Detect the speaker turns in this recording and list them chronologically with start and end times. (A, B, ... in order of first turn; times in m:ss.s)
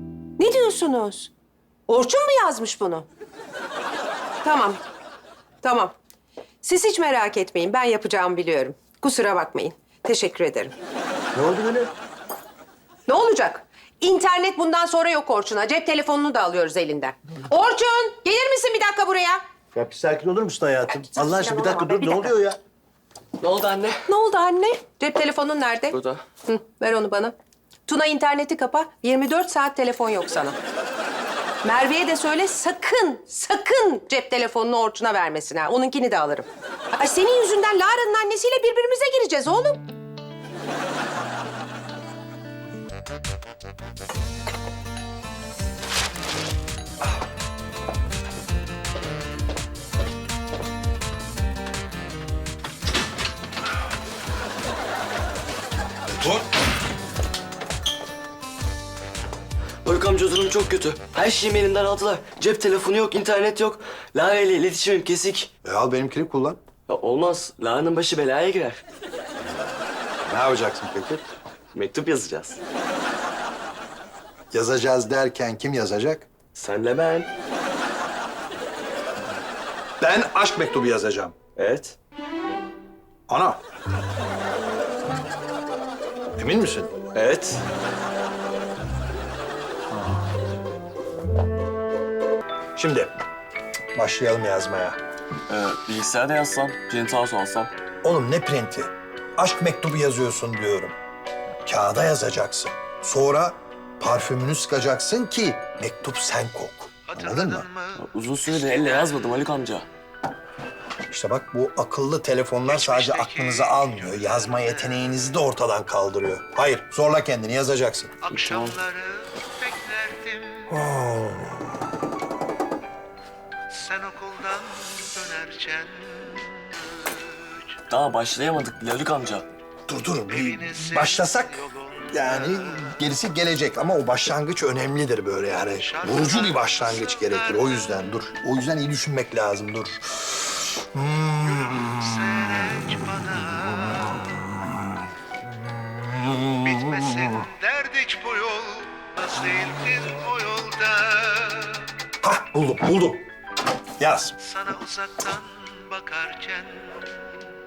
0:00.4-0:01.3 A
0:01.9-0:03.1 A
0:04.4-0:04.8 A
0:05.6-0:06.0 A
0:06.6-0:10.7 A
0:11.3-0:11.9 B
0:13.1-0:19.4 A
0:19.7-0:22.6 B
0:21.1-0:22.3 A
0:23.4-0:24.0 C
0:24.1-0:27.4 A
0:25.9-0:26.2 C
0:27.9-0:30.6 A
0:31.6-0:39.9 A
0:59.8-1:05.5 C
1:05.6-1:06.6 D
1:06.9-1:08.8 C
1:10.2-1:11.3 D
1:11.7-1:12.6 C
1:14.5-1:16.3 D
1:16.6-1:17.3 C
1:20.0-1:21.4 D
1:21.6-1:22.0 C
1:23.3-1:23.6 D
1:26.4-1:27.0 D
1:27.2-1:27.6 C
1:32.8-1:33.1 D
1:34.0-1:35.0 D
1:35.5-1:37.7 C
1:38.0-1:41.0 D
1:41.6-1:47.7 D
1:47.1-1:49.2 E
1:48.0-1:49.9 C
1:51.1-1:58.2 D
1:52.7-1:55.3 E
1:58.2-2:00.8 E
1:58.3-1:58.8 C
2:00.7-2:01.8 D
2:03.7-2:07.8 E
2:07.9-2:09.5 C
2:09.9-2:22.7 D
2:10.3-2:13.0 E
2:15.7-2:18.0 E
2:21.4-2:24.3 E
2:23.8-2:27.4 D
2:26.6-2:31.9 E
2:32.2-2:33.3 D
2:34.0-2:34.4 D
2:34.4-2:37.2 E